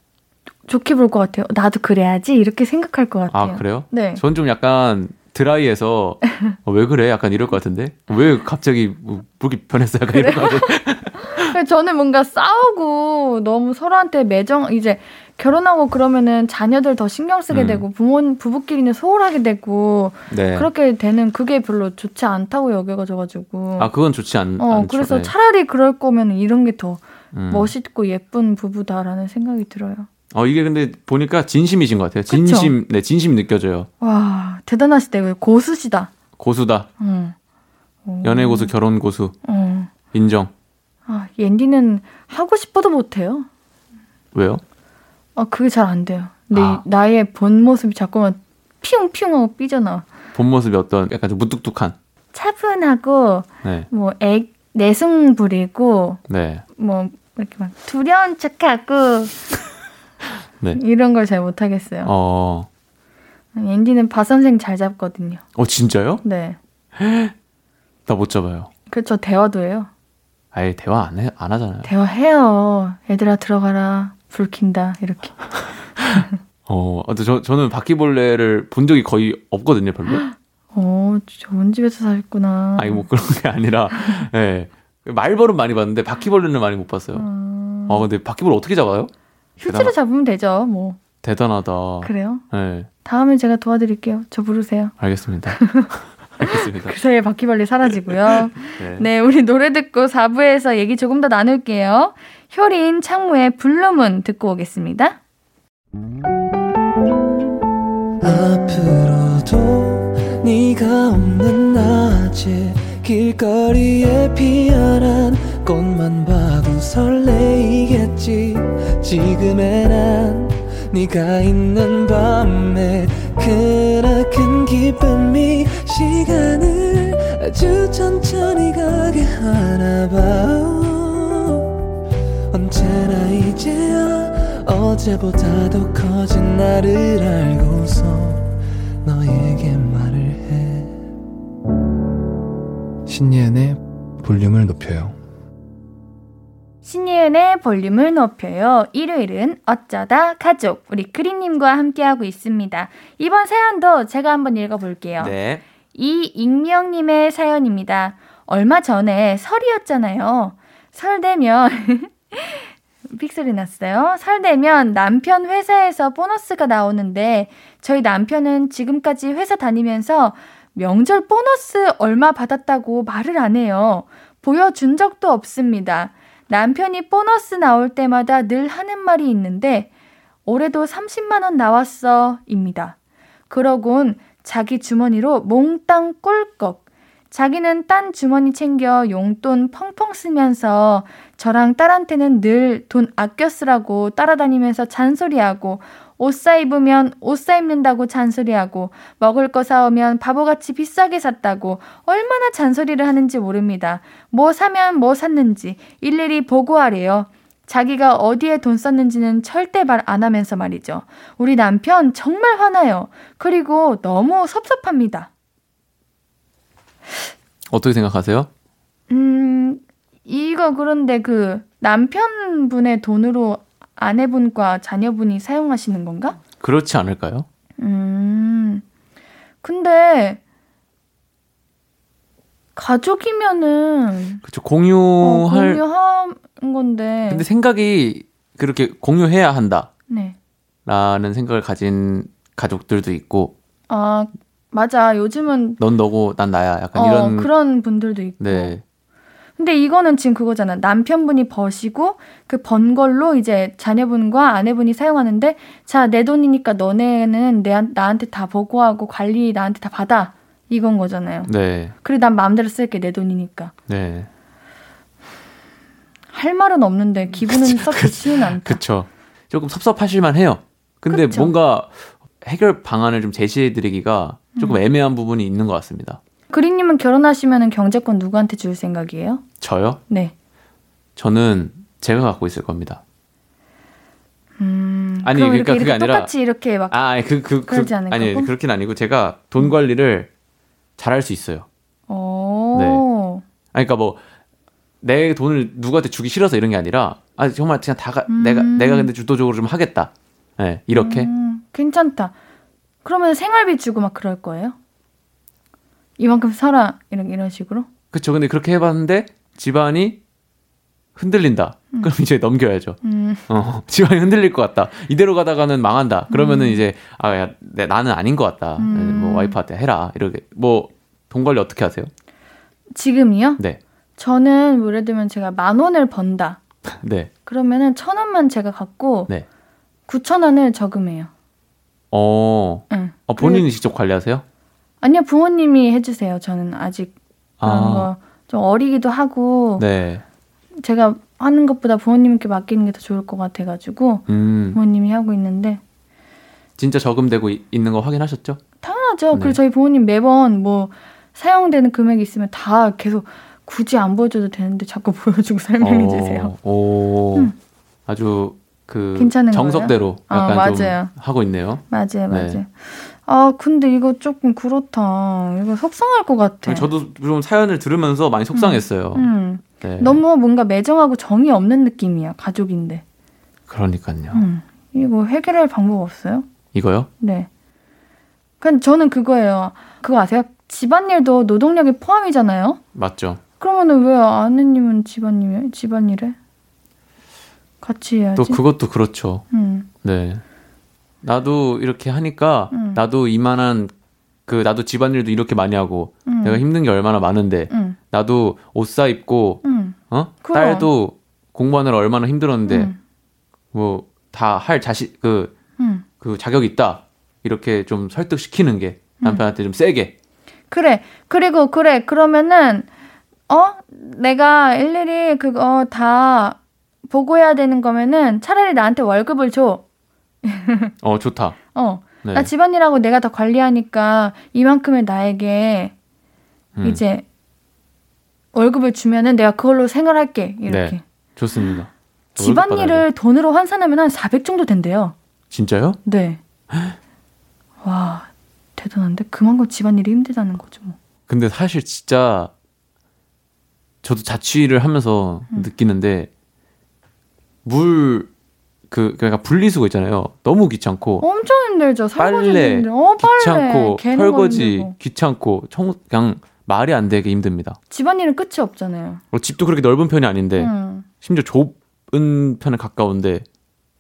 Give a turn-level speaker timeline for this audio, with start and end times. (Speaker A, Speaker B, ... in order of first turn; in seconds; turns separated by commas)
Speaker A: 0.7-4.2, Speaker B: 3.3-11.5, Speaker A: 10.1-23.9, Speaker B: 17.5-17.8, Speaker B: 20.3-20.7, Speaker B: 23.8-25.3, Speaker A: 24.6-30.1, Speaker B: 27.3-27.7, Speaker B: 30.3-33.9, Speaker A: 32.3-32.7, Speaker A: 34.0-36.1, Speaker B: 36.4-36.9, Speaker A: 37.0-37.4, Speaker A: 38.0-38.7, Speaker B: 38.2-39.4, Speaker A: 39.4-39.9, Speaker B: 40.1-40.5, Speaker A: 41.1-43.5, Speaker B: 44.3-44.6, Speaker A: 45.4-50.1, Speaker B: 46.5-46.8, Speaker B: 50.3-51.9, Speaker A: 52.3-56.2, Speaker B: 53.6-53.9, Speaker B: 56.3-56.6, Speaker A: 56.8-59.6, Speaker A: 60.7-62.1, Speaker B: 62.0-62.7, Speaker A: 63.5-65.4, Speaker B: 65.5-66.2, Speaker A: 66.2-66.6, Speaker B: 67.0-67.3, Speaker B: 68.1-68.7, Speaker A: 68.9-69.9, Speaker B: 70.5-71.9, Speaker A: 71.8-75.4, Speaker B: 76.0-80.2, Speaker A: 80.1-83.0, Speaker B: 82.8-87.3, Speaker A: 83.9-84.3, Speaker A: 87.1-88.0, Speaker B: 87.9-89.1, Speaker A: 89.6-91.0, Speaker B: 89.7-89.9, Speaker B: 91.2-92.9, Speaker A: 92.0-92.4, Speaker A: 93.0-94.9, Speaker B: 95.0-97.0, Speaker A: 95.5-95.9, Speaker A: 96.4-105.2, Speaker B: 98.7-99.0, Speaker C: 108.2-131.8, Speaker C: 132.5-138.5, Speaker C: 139.0-141.0, Speaker D: 143.1-145.2, Speaker A: 146.8-155.3, Speaker B: 155.2-155.6, Speaker A: 155.9-179.9, Speaker A: 180.4-182.9, Speaker A: 183.5-215.3, Speaker B: 217.7-218.5, Speaker A: 219.1-226.4, Speaker B: 226.6-227.4, Speaker A: 227.8-228.8, Speaker A: 229.6-230.4, Speaker A: 232.8-234.4, Speaker B: 234.4-235.8, Speaker A: 235.2-237.4, Speaker B: 237.3-239.9, Speaker A: 240.1-240.3, Speaker B: 240.8-243.5, Speaker A: 243.9-245.8, Speaker B: 245.8-247.5, Speaker A: 246.9-248.7, Speaker B: 248.4-248.8, Speaker A: 249.6-261.5, Speaker B: 261.4-261.9, Speaker A: 262.0-263.7, Speaker B: 263.9-264.3, Speaker A: 266.3-268.8, Speaker B: 267.5-276.2, Speaker A: 271.1-271.5, Speaker A: 276.5-279.4, Speaker B: 279.6-280.0, Speaker B: 281.1-283.0, Speaker A: 284.6-286.9, Speaker B: 285.2-286.3, Speaker B: 286.9-290.3, Speaker A: 287.7-288.5, Speaker B: 291.0-291.6, Speaker A: 292.1-293.4, Speaker B: 292.7-293.0, Speaker B: 293.7-294.2, Speaker B: 295.0-301.3, Speaker A: 298.3-299.1, Speaker A: 300.9-302.3, Speaker A: 303.0-304.8, Speaker A: 306.2-307.9, Speaker B: 308.1-310.2, Speaker B: 311.1-322.1, Speaker A: 313.0-313.4, Speaker A: 316.3-316.8, Speaker A: 318.8-319.6, Speaker A: 322.9-323.6, Speaker A: 324.2-326.6, Speaker B: 327.0-327.3, Speaker A: 327.4-329.3, Speaker A: 330.1-331.3, Speaker B: 332.1-334.4, Speaker A: 332.9-333.6, Speaker A: 335.0-337.1, Speaker B: 337.6-338.1, Speaker A: 337.6-339.8, Speaker B: 339.8-340.2, Speaker A: 340.8-345.8, Speaker B: 344.3-344.8, Speaker B: 346.8-348.6, Speaker A: 348.8-356.5, Speaker B: 349.3-349.6, Speaker B: 355.8-357.5, Speaker B: 358.1-362.6, Speaker A: 359.1-361.1, Speaker A: 361.9-366.9, Speaker B: 366.6-369.3, Speaker A: 368.5-373.0, Speaker B: 369.8-370.2, Speaker B: 373.7-374.4, Speaker A: 374.3-376.4, Speaker B: 376.7-377.1, Speaker A: 377.2-377.5, Speaker A: 378.6-382.8, Speaker B: 382.9-383.4, Speaker A: 383.6-386.4, Speaker A: 387.8-388.6, Speaker B: 388.4-389.4, Speaker A: 389.5-389.9, Speaker B: 390.0-390.4, Speaker B: 391.2-393.9, Speaker A: 392.7-393.0, Speaker B: 394.5-402.9, Speaker A: 396.3-396.6, Speaker A: 397.7-398.0, Speaker A: 399.6-400.9, Speaker A: 402.7-403.0, Speaker B: 403.7-405.5, Speaker A: 405.8-406.0, Speaker B: 406.2-410.1, Speaker A: 410.7-412.9, Speaker A: 413.5-419.8, Speaker A: 420.4-420.9, Speaker B: 421.0-421.6, Speaker A: 421.7-425.9, Speaker B: 422.2-422.5, Speaker B: 426.8-427.0, Speaker A: 426.8-427.2, Speaker A: 428.5-431.0, Speaker B: 430.7-433.0, Speaker A: 432.3-435.1, Speaker B: 435.5-436.0, Speaker A: 436.0-436.4, Speaker B: 436.7-436.9, Speaker A: 437.8-441.0, Speaker B: 441.3-442.5, Speaker B: 444.0-446.3, Speaker B: 447.6-448.3, Speaker B: 448.9-451.2, Speaker A: 451.2-454.9, Speaker B: 452.2-457.8, Speaker A: 457.9-459.2, Speaker B: 459.3-463.4, Speaker A: 460.6-461.1